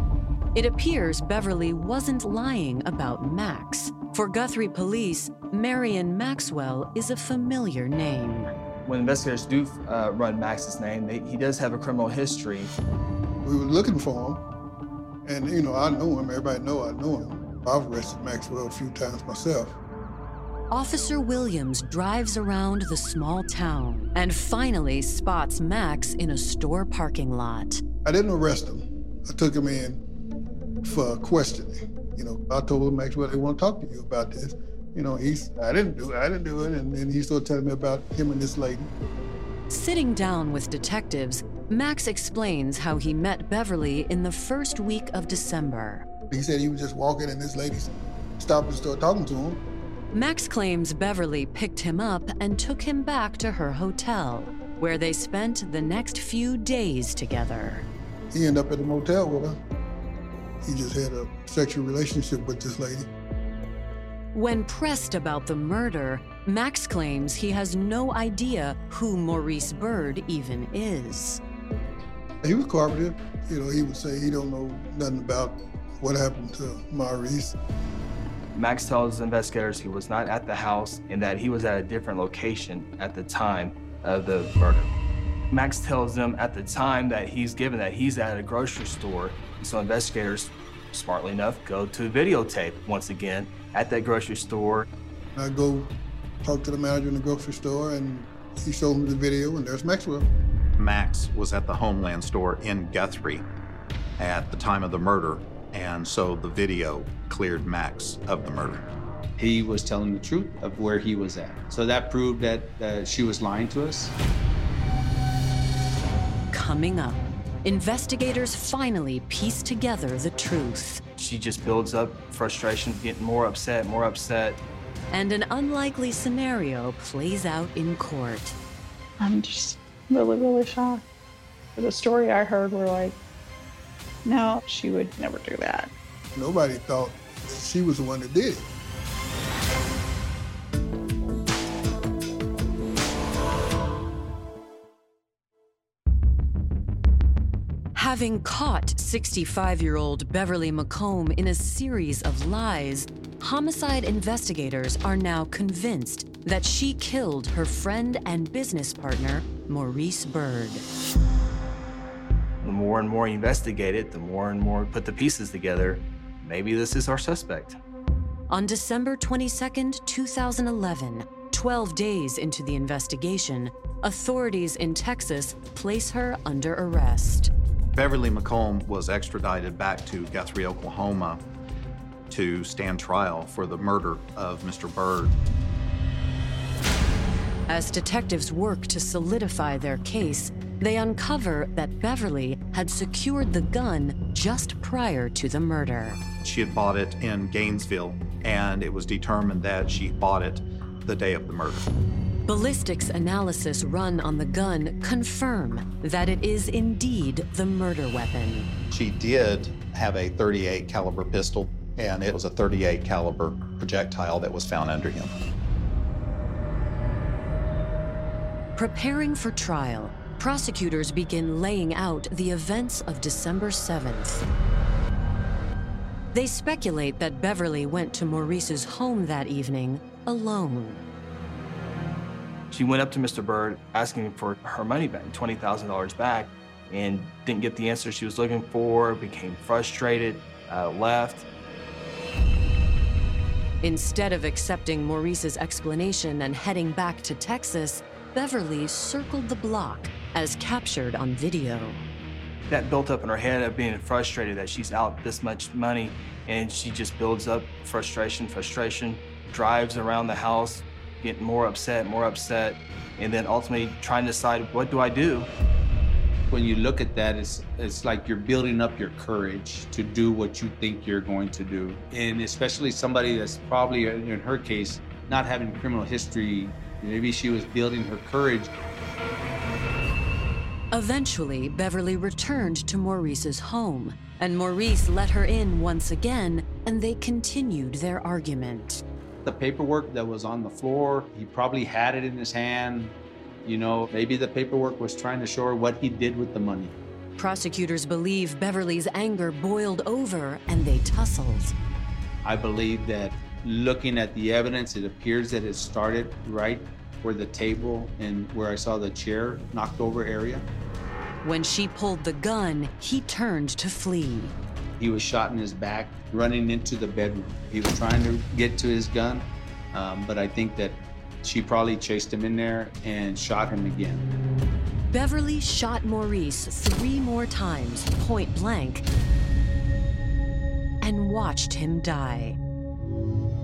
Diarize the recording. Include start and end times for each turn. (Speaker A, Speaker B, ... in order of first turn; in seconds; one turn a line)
Speaker A: 0.6-8.5
Speaker B: 8.8-12.7
Speaker C: 13.4-14.4
Speaker C: 15.2-19.8
Speaker A: 20.7-27.8
Speaker C: 28.1-30.0
Speaker C: 30.8-38.9
Speaker A: 39.7-46.1
Speaker C: 46.3-49.6
Speaker A: 50.1-57.9
Speaker C: 58.3-59.6
Speaker C: 60.6-63.1
Speaker A: 64.3-71.4
Speaker C: 72.4-77.6
Speaker B: 78.5-84.9
Speaker B: 85.5-94.9
Speaker C: 95.3-95.9
Speaker C: 96.4-100.3
Speaker D: 100.8-103.5
Speaker D: 104.2-108.8
Speaker E: 109.4-114.1
Speaker A: 116.5-121.0
Speaker B: 121.2-124.6
Speaker A: 125.1-128.6
Speaker F: 129.2-131.0
Speaker F: 131.8-133.2
Speaker F: 134.2-135.9
Speaker C: 136.4-138.7
Speaker A: 147.9-160.8
Speaker B: 162.6-167.8
Speaker A: 168.5-177.5
Speaker D: 177.9-181.4
Speaker D: 182.3-185.4
Speaker A: 187.7-196.2
Speaker D: 196.4-201.9
Speaker A: 202.5-208.7
Speaker D: 208.9-215.3
Speaker A: 218.8-224.4
Speaker A: 226.3-231.0
Speaker B: 232.7-241.5
Speaker A: 243.8-252.0
Speaker B: 252.7-265.5
Speaker E: 266.5-278.7
Speaker A: 280.9-289.0
Speaker E: 289.4-296.9
Speaker A: 297.4-301.7
Speaker E: 302.4-310.6
Speaker A: 311.4-314.5
Speaker E: 315.0-324.3
Speaker A: 325.1-329.1
Speaker A: 331.0-332.6